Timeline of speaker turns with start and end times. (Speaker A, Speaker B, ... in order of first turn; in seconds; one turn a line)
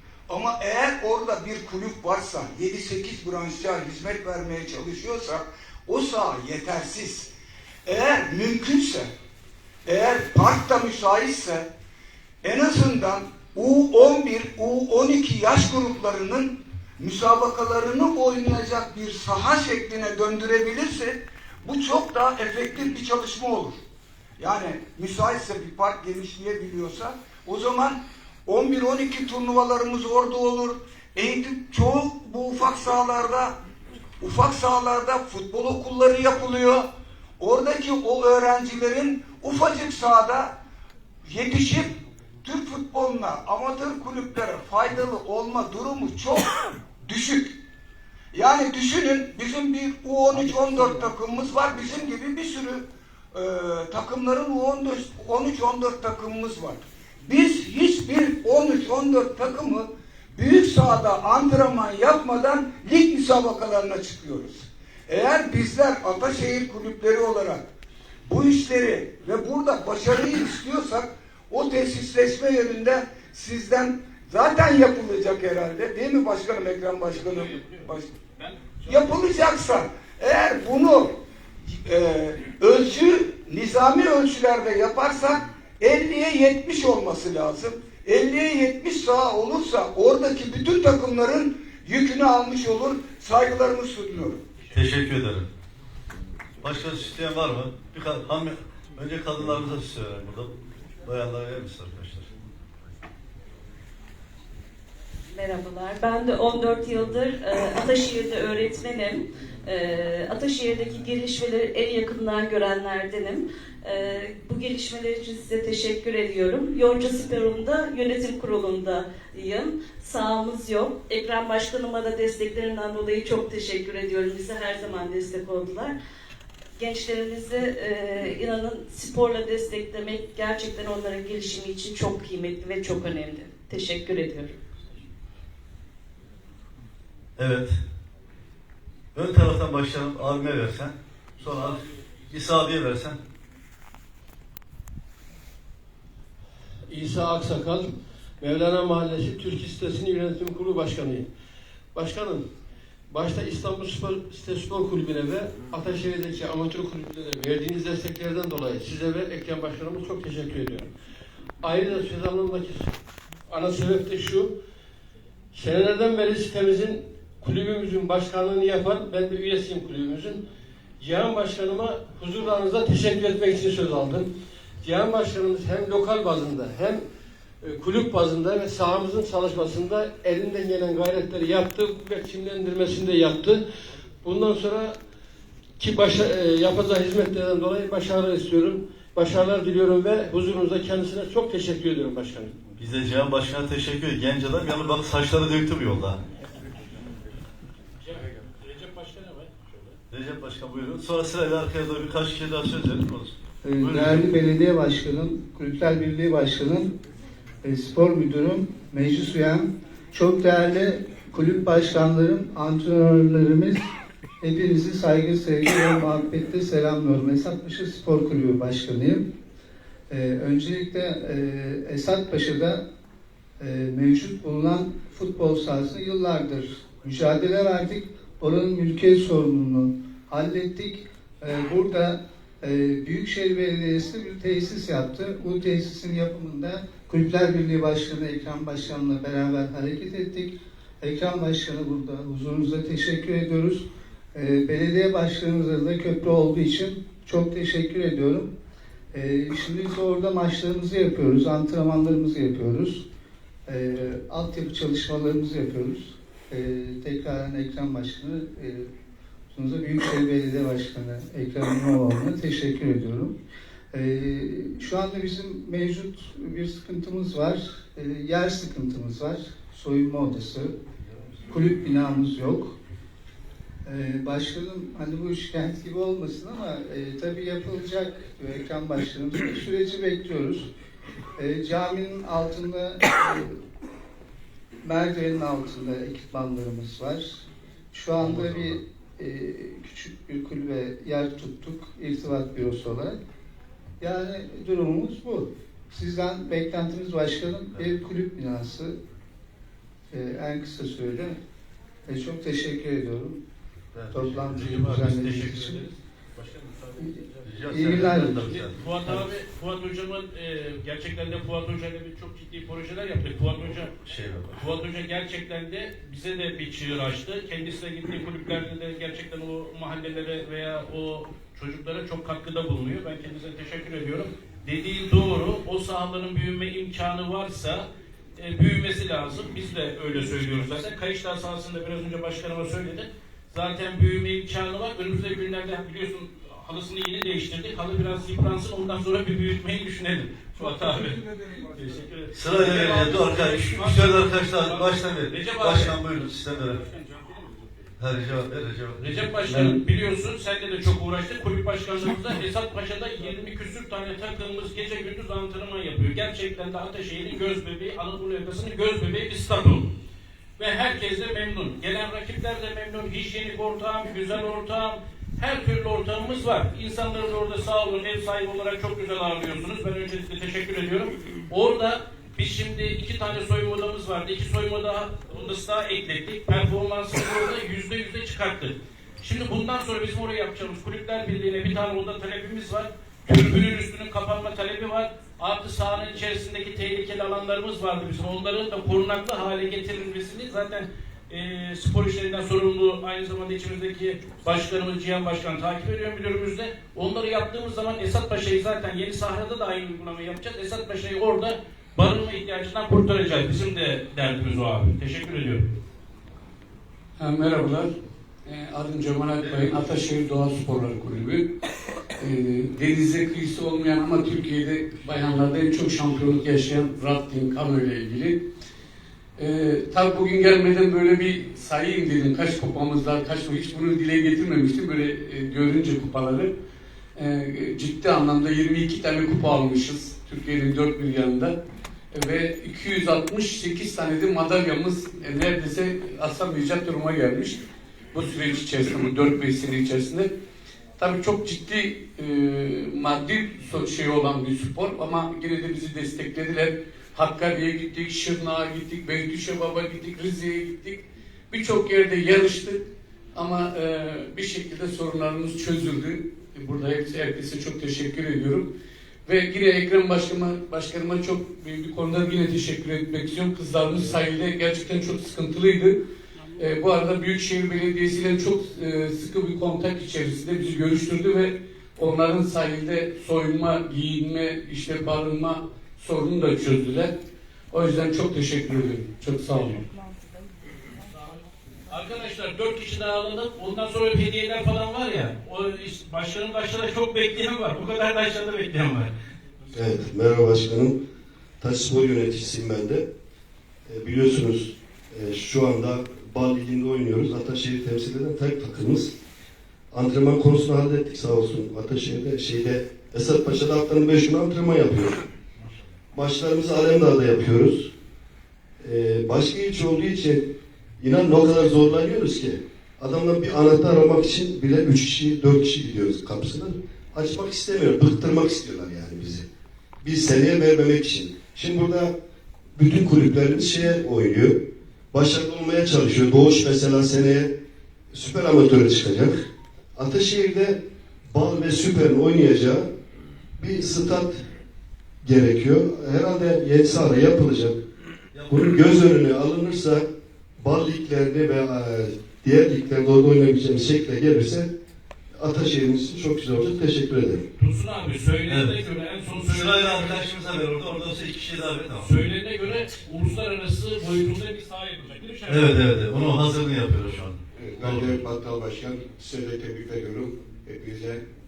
Speaker A: 0.3-7.3
Speaker A: 7.8-9.1
Speaker A: 9.8-11.7
Speaker A: 12.4-23.8
Speaker A: 24.4-33.6
Speaker A: 34.2-36.9
Speaker A: 37.4-40.5
Speaker A: 41.2-47.6
Speaker A: 48.3-67.7
Speaker A: 68.2-78.2
Speaker B: 77.1-79.2
Speaker A: 78.9-81.1
Speaker A: 81.7-94.4
Speaker B: 94.6-94.9
Speaker C: 94.7-95.5
Speaker C: 96.6-100.5
Speaker C: 101.0-102.3
Speaker D: 105.3-126.0
Speaker D: 126.8-134.6
Speaker C: 137.4-137.8
Speaker C: 139.1-143.2
Speaker E: 146.9-151.3
Speaker E: 151.9-152.5
Speaker E: 153.1-160.9
Speaker E: 161.6-162.9
Speaker E: 163.5-164.5
Speaker E: 165.5-170.4
Speaker E: 171.0-177.0
Speaker E: 177.6-183.6
Speaker E: 184.2-185.0
Speaker E: 185.8-192.5
Speaker C: 192.8-196.2
Speaker B: 198.0-200.0
Speaker C: 200.1-204.3
Speaker F: 203.6-206.9
Speaker F: 207.6-213.9
Speaker F: 214.4-219.2
Speaker F: 220.1-222.8
Speaker F: 223.6-248.5
Speaker F: 249.1-253.0
Speaker F: 253.7-258.9
Speaker F: 259.5-263.3
Speaker F: 263.9-270.7
Speaker F: 271.5-272.7
Speaker F: 273.9-280.7
Speaker F: 281.4-283.5
Speaker F: 284.8-293.2
Speaker C: 288.2-288.7
Speaker F: 294.0-299.0
Speaker F: 300.1-301.4
Speaker F: 302.1-303.4
Speaker C: 303.9-305.5
Speaker F: 304.1-305.8
Speaker B: 304.5-306.6
Speaker F: 307.0-308.4
Speaker C: 307.4-309.3
Speaker B: 308.2-313.9
Speaker C: 314.0-314.7
Speaker B: 314.6-327.9
Speaker B: 328.4-347.9
Speaker C: 342.3-346.8
Speaker C: 348.0-349.8
Speaker B: 349.0-359.9
Speaker B: 360.6-405.7
Speaker G: 407.2-407.9
Speaker G: 408.4-411.4
Speaker G: 412.2-418.4
Speaker G: 419.4-426.5
Speaker G: 427.1-431.5
Speaker G: 432.1-437.6
Speaker G: 438.1-440.3
Speaker G: 441.0-452.8
Speaker G: 453.3-458.7
Speaker G: 459.2-465.9
Speaker G: 466.6-477.1
Speaker G: 477.7-479.8
Speaker B: 481.9-489.1
Speaker H: 489.7-491.0
Speaker H: 491.6-493.1
Speaker H: 493.9-499.1
Speaker H: 499.9-505.2
Speaker H: 506.1-507.9
Speaker H: 508.8-519.4
Speaker H: 520.0-522.1
Speaker H: 522.8-527.5
Speaker H: 528.1-529.4
Speaker H: 529.9-530.8
Speaker H: 531.3-532.9
Speaker H: 533.6-534.4
Speaker H: 535.2-537.8
Speaker C: 538.3-538.6
Speaker H: 538.5-540.0
Speaker H: 540.6-544.7
Speaker H: 545.4-547.4
Speaker B: 547.6-550.3
Speaker C: 548.5-548.8
Speaker C: 549.4-552.1
Speaker B: 552.0-555.8
Speaker C: 555.5-558.2
Speaker I: 557.5-561.2